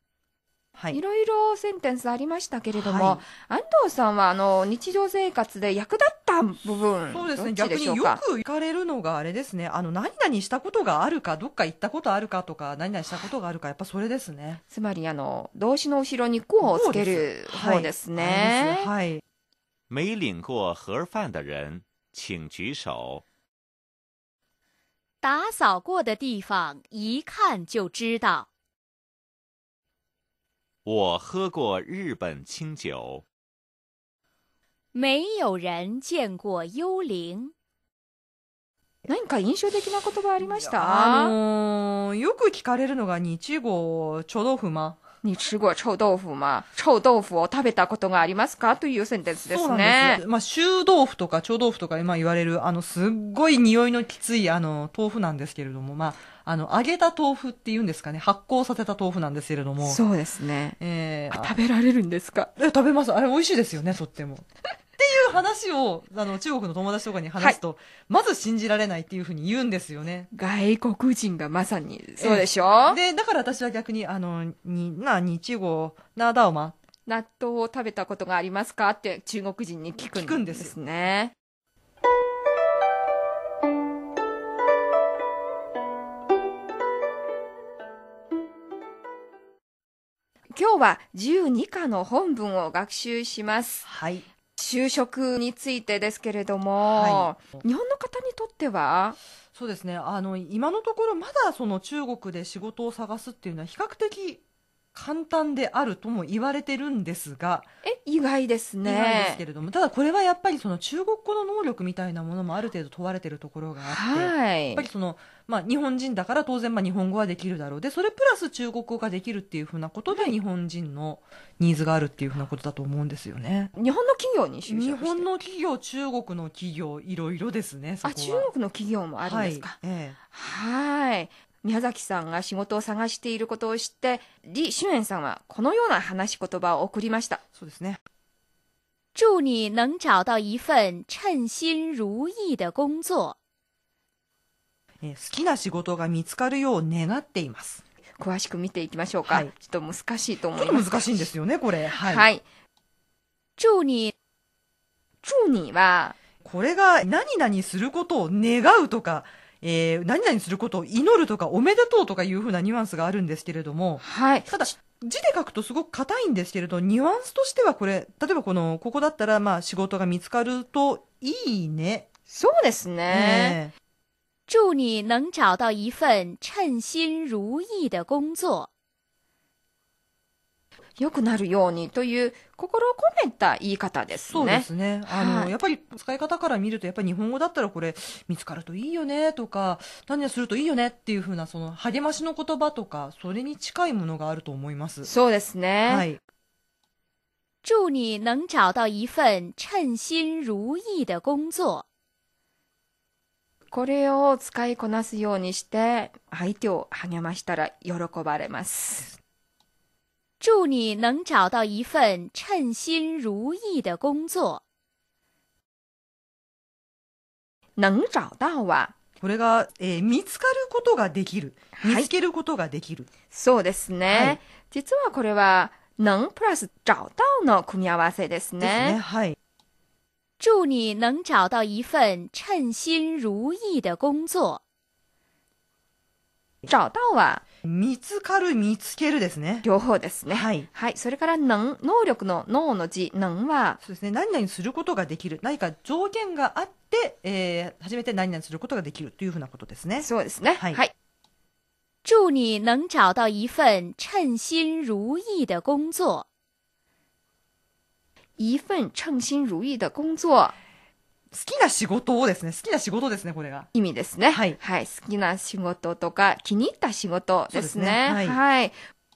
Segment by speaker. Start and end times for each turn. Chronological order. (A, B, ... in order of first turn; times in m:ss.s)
0:00.9-0:08.2 A
0:02.7-0:03.2 B
0:07.1-0:14.6 B
0:14.7-0:18.9 A
0:16.6-0:19.2 B
0:19.9-0:23.2 C
0:25.2-0:28.5 D
0:30.8-0:33.2 C
0:34.9-0:37.5 D
0:39.0-0:41.3 A
0:40.4-0:45.0 B
0:45.2-0:50.2 A
0:49.5-1:00.0 B
0:59.8-1:00.8 A
1:00.8-1:01.6 B
1:01.3-1:02.5 A
1:02.6-1:04.5 B
1:05.0-1:10.3 B
1:10.3-1:13.0 A
1:12.2-1:16.8 B
1:17.1-1:21.3 A
1:20.0-1:20.7 B
1:30.5-1:33.8 A
1:33.8-1:34.3 B
1:34.6-1:39.2 A
1:36.9-1:37.3 B
1:39.5-1:44.4 B
1:44.9-1:47.7 B
1:47.8-1:49.4 A
1:48.8-2:03.7 B
1:53.8-1:54.8 A
2:00.1-2:00.4 A
2:03.7-2:05.3 A
2:04.7-2:08.5 B
2:08.0-2:17.4 A
2:09.2-2:10.2 B
2:17.5-2:18.0 B
2:19.2-2:23.4 D
2:25.0-2:27.8 B
2:28.2-2:31.1 A
2:30.6-2:32.2 B
2:31.9-2:32.4 A
2:33.6-2:34.1 D
2:35.2-2:36.2 A
2:36.4-2:52.1 B
2:44.0-2:44.7 A
2:52.3-2:53.6 A
2:53.1-2:53.7 B
2:54.5-2:58.7 D
3:01.0-3:05.5 A
3:04.3-3:15.1 B
3:15.0-3:16.1 A
3:15.9-3:16.2 B
3:17.6-3:21.8 D
3:23.7-3:29.2 A
3:30.4-3:34.6 D
3:37.8-3:39.0 A
3:39.2-3:43.1 B
3:41.7-3:42.1 A
3:43.3-3:49.0 A
3:44.1-3:44.4 B
3:48.6-3:49.4 B
3:50.4-3:54.6 D
3:56.6-3:57.4 A
3:57.6-3:59.7 B
3:59.6-4:03.8 A
4:00.3-4:00.7 B
4:03.8-4:10.1 B
4:10.0-4:10.9 A
4:12.0-4:16.2 D
4:18.4-4:20.6 A
4:21.3-4:23.7 B
4:23.7-4:28.8 A
4:24.3-4:24.6 B
4:27.5-4:28.4 B